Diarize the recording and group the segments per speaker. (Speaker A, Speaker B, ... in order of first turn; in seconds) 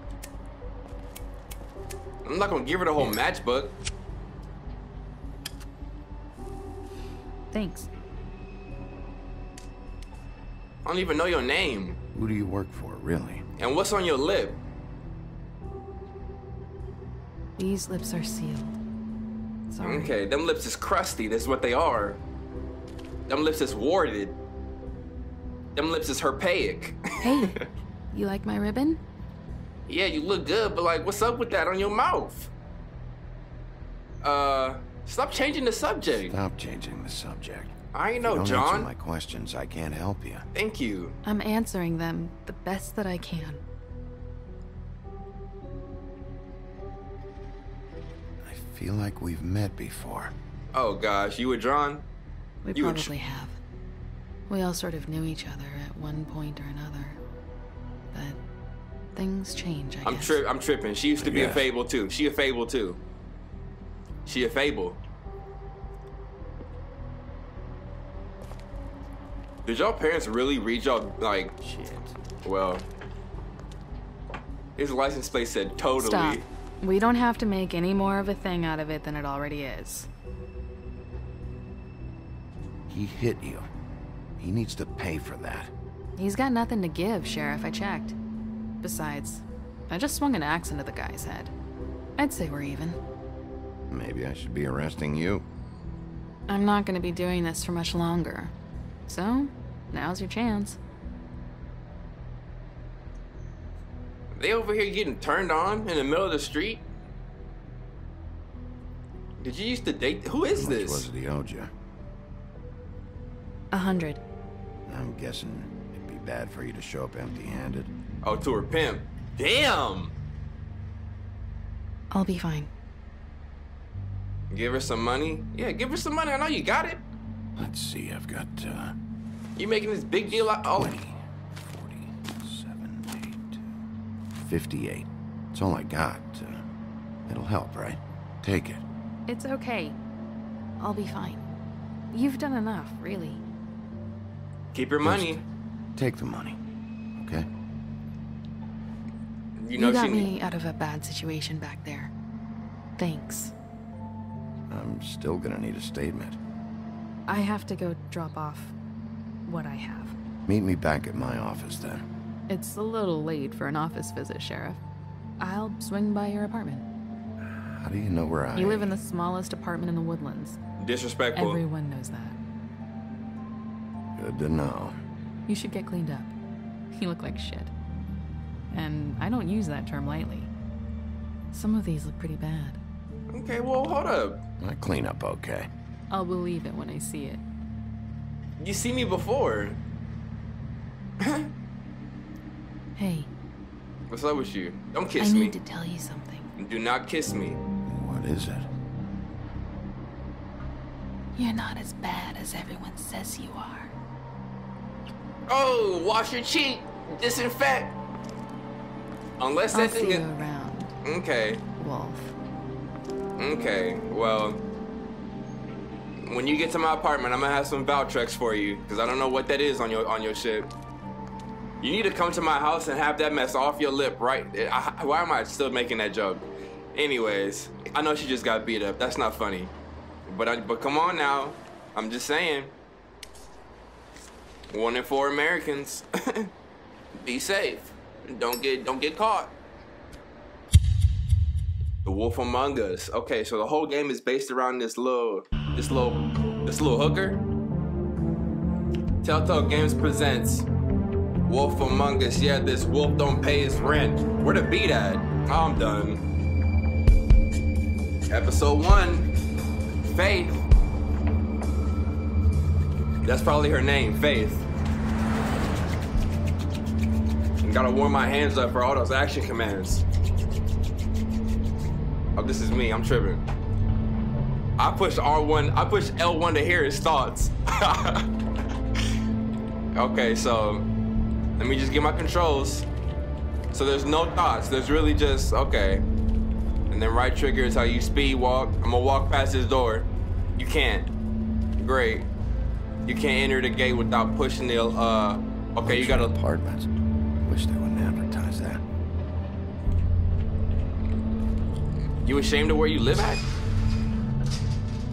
Speaker A: 2.2-3.7, 10.8-12.0, 13.6-14.6, 19.8-22.2, 23.3-24.4, 25.8-27.6, 29.9-32.5, 34.2-36.4, 37.9-38.9, 40.5-41.2, 50.7-52.0, 52.7-53.1, 60.0-63.0, 64.3-65.0, 69.7-71.5, 72.4-72.8, 74.8-76.5, 104.3-106.8, 109.4-111.1, 118.2-120.1, 124.5-127.0, 129.6-131.0, 144.7-145.4, 149.6-150.3, 170.8-171.6, 183.3-184.4, 188.6-189.8, 191.2-191.5, 194.1-195.6, 196.6-197.6, 205.5-207.9, 209.4-210.3, 211.0-211.6, 213.4-214.6, 216.3-220.7, 221.8-229.7, 230.3-232.7, 234.7-236.5, 237.2-239.5, 242.1-247.4, 249.2-250.7, 251.5-256.2, 258.3-259.3, 260.1-260.6, 263.2-264.7, 267.6-270.1, 272.4-273.4, 274.8-278.3, 279.9-280.9, 281.6-282.9, 283.7-286.0, 286.9-291.1, 291.8-292.3, 293.1-296.4, 302.2-303.4
Speaker B: 7.5-7.9, 17.6-18.7, 19.7-20.2, 27.2-27.6, 28.1-29.0, 41.2-43.6, 52.6-53.6, 54.5-57.2, 58.1-58.4, 59.1-60.4, 76.0-80.1, 86.2-88.2, 88.8-91.5, 92.2-93.0, 96.5-98.5, 99.1-100.8, 113.7-114.2, 122.1-122.7, 139.3-140.0, 140.8-141.4, 142.1-143.4, 149.8-152.1, 153.0-153.5, 157.3-158.8, 159.5-160.2, 162.5-164.8, 165.4-166.8, 168.6-170.6, 171.3-172.4, 175.5-176.3, 176.9-177.7, 178.7-180.5, 181.5-182.8, 186.1-187.4, 193.0-193.3, 195.2-196.5, 201.3-203.9, 209.7-210.9, 211.8-212.3
Speaker C: 12.1-13.4, 36.3-40.5, 48.4-50.3, 61.2-61.7, 71.6-72.1, 82.9-83.7, 84.4-85.7, 93.9-95.4, 110.5-111.7, 114.9-117.9, 127.6-128.9, 130.3-133.7, 134.3-136.7, 137.3-138.8, 145.0-145.4, 145.9-146.6, 147.2-147.5, 154.7-156.4, 160.5-162.1, 167.4-169.0, 174.2-175.0, 184.6-185.7, 197.8-198.7, 295.8-296.9, 297.4-298.8